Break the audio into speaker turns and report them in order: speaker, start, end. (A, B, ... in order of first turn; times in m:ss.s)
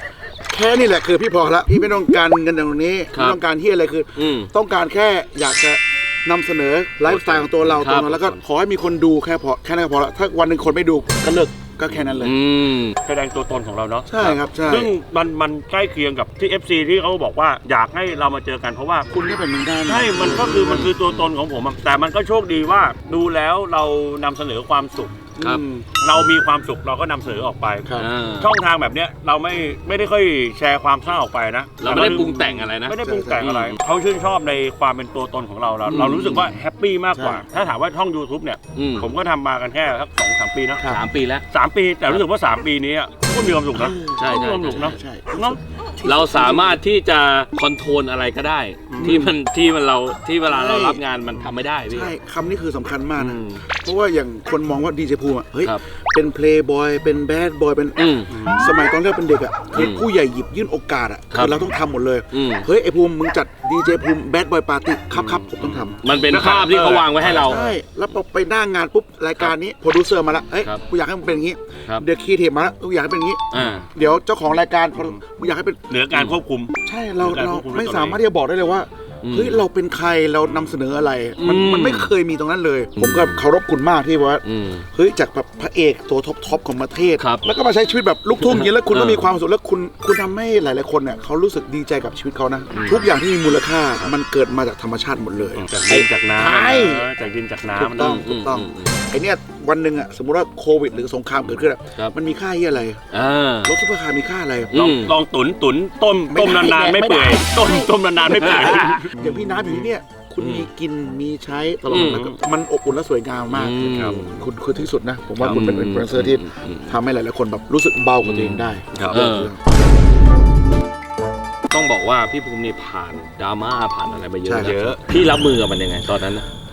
0:00.5-0:12.4 A
0:03.1-0:03.4 B
0:04.2-0:04.5 B
0:07.1-0:08.4 B
0:07.1-0:07.5 C
0:12.2-0:13.0 B
0:13.0-0:19.2 C
0:14.1-0:14.9 A
0:19.1-0:20.9 A
0:19.9-0:25.3 C
0:20.2-0:21.3 B
0:25.4-0:25.8 A
0:25.4-0:25.6 B
0:26.0-0:40.8 C
0:27.8-0:28.1 A
0:28.0-0:28.5 B
0:31.8-0:33.8 B
0:33.0-0:33.5 A
0:35.9-0:36.6 A
0:36.0-0:36.4 B
0:37.2-0:37.4 A
0:38.8-0:39.1 B
0:40.8-0:41.4 B
0:41.5-0:45.6 C
0:43.7-0:46.8 A
0:44.2-0:45.0 B
0:46.0-0:52.1 B
0:48.9-0:49.2 C
0:49.0-0:49.3 A
0:50.5-0:51.0 A
0:51.9-1:06.0 A
0:53.2-0:53.6 B
0:58.0-0:58.3 B
0:58.3-0:58.6 C
0:59.7-1:00.0 B
1:01.3-1:01.6 B
1:02.3-1:02.7 B
1:05.1-1:07.7 C
1:06.0-1:07.6 B
1:07.2-1:15.8 A
1:13.5-1:13.9 B
1:13.6-1:13.9 C
1:15.9-1:18.2 C
1:16.8-1:37.1 A
1:19.2-1:19.6 B
1:21.4-1:22.1 B
1:23.0-1:23.4 B
1:24.4-1:24.8 B
1:27.2-1:27.4 B
1:28.4-1:29.3 B
1:32.7-1:33.1 B
1:35.6-1:38.2 C
1:37.7-1:43.0 A
1:38.0-1:39.0 B
1:43.1-1:43.7 B
1:43.6-1:44.7 A
1:44.7-1:45.2 B
1:44.7-1:49.9 C
1:46.3-1:47.9 A
1:48.4-1:49.1 B
1:48.4-1:59.6 A
1:50.4-1:50.7 B
1:51.9-1:52.4 C
1:51.9-1:52.2 B
1:53.5-1:54.4 B
1:53.8-1:54.2 C
1:55.5-1:56.9 B
1:58.2-1:59.5 B
2:01.7-2:06.4 B
2:04.4-2:05.0 A
2:04.6-2:05.0 C